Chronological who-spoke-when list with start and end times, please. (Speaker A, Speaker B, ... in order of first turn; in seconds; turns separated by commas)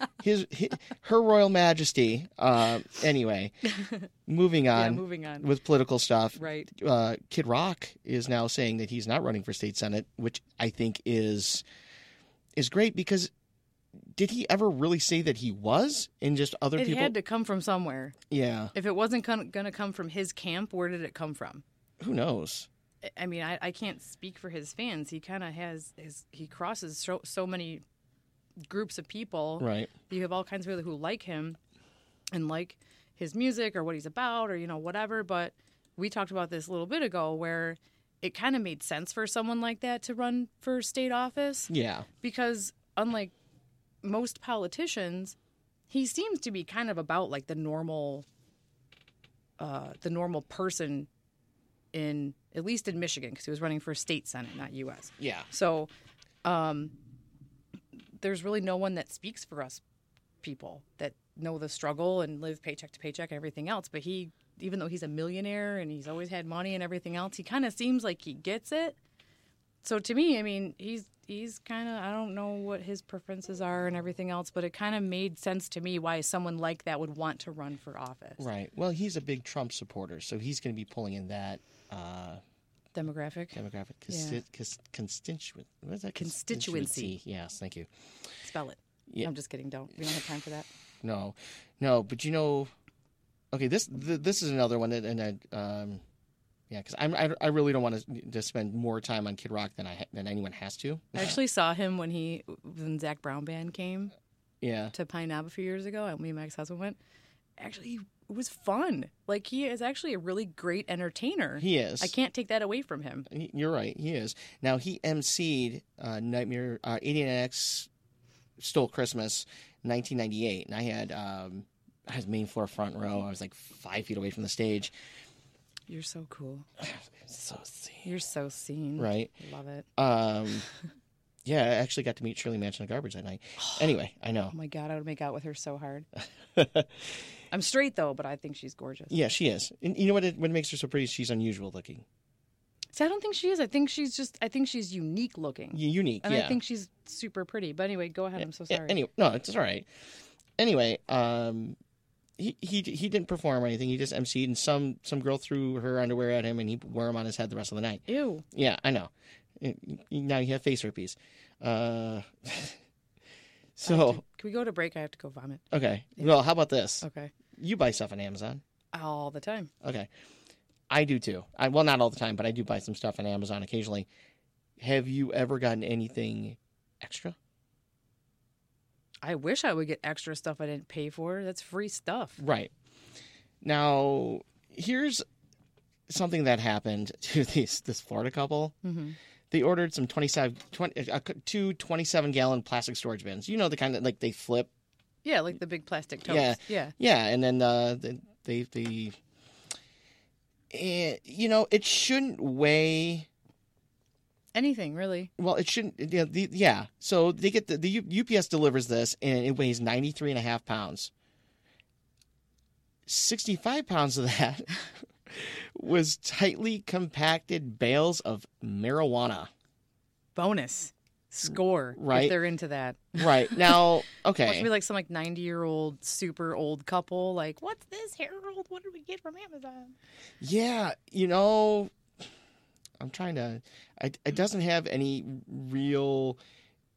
Speaker A: 0.2-3.5, Speaker B: 3.8-4.0, Speaker A: 4.3-11.6, Speaker B: 4.7-5.5, Speaker B: 6.4-6.7, Speaker A: 12.6-13.3, Speaker A: 14.1-17.1, Speaker B: 16.8-18.1, Speaker A: 18.3-18.7, Speaker B: 18.8-21.6, Speaker A: 22.0-22.7, Speaker B: 23.0-27.8, Speaker B: 28.6-31.6, Speaker A: 29.6-29.9, Speaker B: 32.3-43.3, Speaker A: 41.7-42.1, Speaker B: 44.0-45.4, Speaker B: 45.9-48.2, Speaker B: 49.6-51.1, Speaker B: 51.9-55.9, Speaker A: 55.2-55.5, Speaker B: 56.4-56.9, Speaker B: 58.2-59.8, Speaker B: 60.4-69.0, Speaker B: 69.8-78.4, Speaker A: 78.4-82.4, Speaker B: 82.9-84.4, Speaker A: 83.5-87.9, Speaker B: 86.2-87.2, Speaker B: 88.4-90.7, Speaker A: 91.0-92.7, Speaker A: 93.5-96.0, Speaker A: 96.7-101.4, Speaker B: 101.2-104.1, Speaker A: 104.6-104.9, Speaker B: 104.9-107.0, Speaker B: 107.6-113.3, Speaker A: 111.6-112.1, Speaker A: 113.3-117.9, Speaker A: 118.6-124.9, Speaker B: 125.9-126.7, Speaker A: 126.8-128.1, Speaker B: 128.0-129.9, Speaker A: 129.0-129.3, Speaker A: 130.0-130.7, Speaker A: 131.4-134.5, Speaker B: 133.6-133.9, Speaker B: 134.5-136.1, Speaker A: 136.5-136.9, Speaker B: 137.5-139.2, Speaker A: 139.1-142.0, Speaker B: 142.9-149.0, Speaker A: 145.7-146.6, Speaker A: 148.4-149.9, Speaker A: 150.6-151.8, Speaker A: 152.4-162.8, Speaker B: 158.1-158.4, Speaker A: 163.8-164.2, Speaker B: 163.8-165.6, Speaker A: 165.7-167.0, Speaker B: 167.0-167.3, Speaker A: 167.6-168.6, Speaker B: 168.9-169.7, Speaker A: 169.8-170.1, Speaker A: 170.9-174.1, Speaker A: 174.8-177.4, Speaker B: 179.2-182.4, Speaker A: 182.4-182.7, Speaker A: 183.6-185.2, Speaker A: 186.1-188.8, Speaker B: 188.8-189.2, Speaker A: 189.5-194.7, Speaker B: 195.2-196.9, Speaker A: 196.2-199.2, Speaker A: 200.7-203.3, Speaker B: 204.5-205.3, Speaker A: 205.4-211.1, Speaker A: 213.1-214.7, Speaker A: 215.3-219.5, Speaker B: 220.4-223.9, Speaker A: 221.9-222.4, Speaker A: 223.2-224.7, Speaker B: 224.4-229.9, Speaker A: 230.4-231.9, Speaker A: 233.0-236.4